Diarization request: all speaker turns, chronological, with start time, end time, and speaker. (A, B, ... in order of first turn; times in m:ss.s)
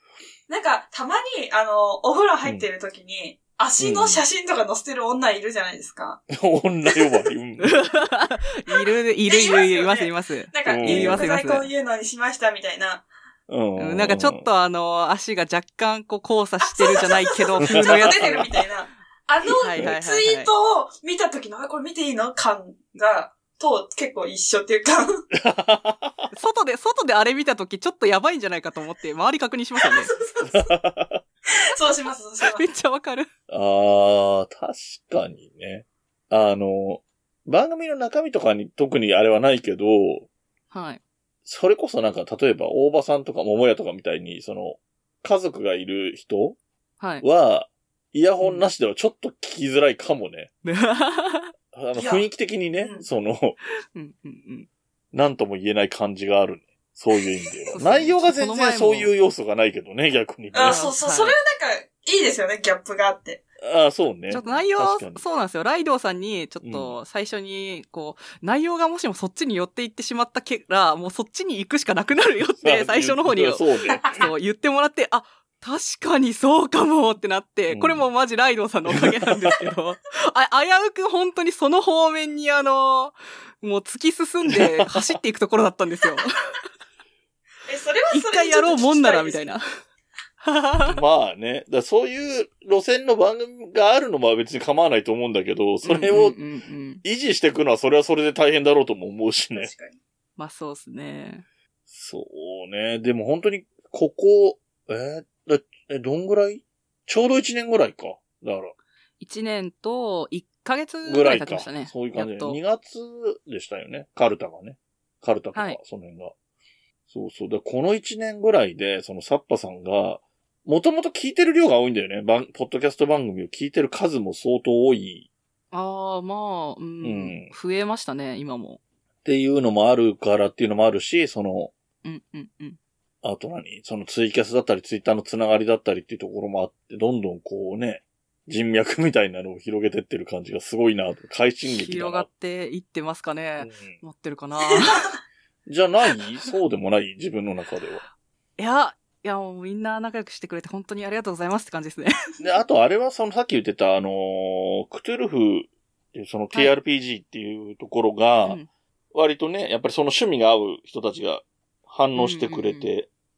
0:00.5-0:06.2 A
0:03.8-0:04.2 B
0:06.3-0:07.8 B
0:07.6-0:11.7 C
0:08.7-0:13.1 A
0:10.6-0:11.3 B
0:13.5-0:14.5 B
0:13.8-0:18.5 C
0:16.6-0:25.2 A
0:17.7-0:18.4 B
0:19.6-0:20.5 C
0:25.3-0:26.3 B
0:26.3-0:30.1 C
0:29.8-0:30.7 A
0:30.4-0:31.2 B
0:31.5-0:32.7 A
0:32.4-0:33.3 C
0:33.5-0:40.3 B
0:40.7-0:41.0 C
0:41.4-0:46.6 B
0:47.0-0:47.2 C
0:47.2-0:50.5 B
0:48.4-0:48.7 C
0:50.6-0:51.5 C
0:51.7-0:53.6 B
0:52.0-0:52.2 A
0:52.8-0:53.0 A
0:53.9-0:54.7 C
0:55.1-1:00.8 B
0:57.7-0:59.1 C
1:00.5-1:03.4 A
1:00.6-1:01.4 C
1:03.6-1:05.2 B
1:04.3-1:26.6 C
1:04.4-1:04.6 A
1:06.6-1:07.0 B
1:12.6-1:14.1 B
1:14.0-1:14.2 A
1:17.7-1:18.1 B
1:18.9-1:19.5 B
1:24.5-1:25.1 B
1:27.6-1:29.5 A
1:28.1-1:29.6 C
1:30.4-1:31.0 C
1:30.9-1:36.4 B
1:35.8-1:37.0 C
1:37.0-1:39.7 B
1:39.5-1:40.0 A
1:40.4-1:41.4 C
1:41.9-1:48.7 B
1:49.2-1:52.6 C
1:51.0-1:56.3 B
1:57.1-2:05.3 B
2:05.7-2:08.8 C
2:07.0-2:07.5 B
2:09.2-2:11.7 B
2:12.0-2:12.8 C
2:13.2-2:22.3 B
2:21.6-2:25.1 C
2:23.6-2:24.0 B
2:25.6-2:28.0 B
2:28.6-2:32.1 C
2:32.4-2:38.6 B
2:38.4-2:38.7 C
2:39.1-2:43.1 B
2:42.1-2:42.9 C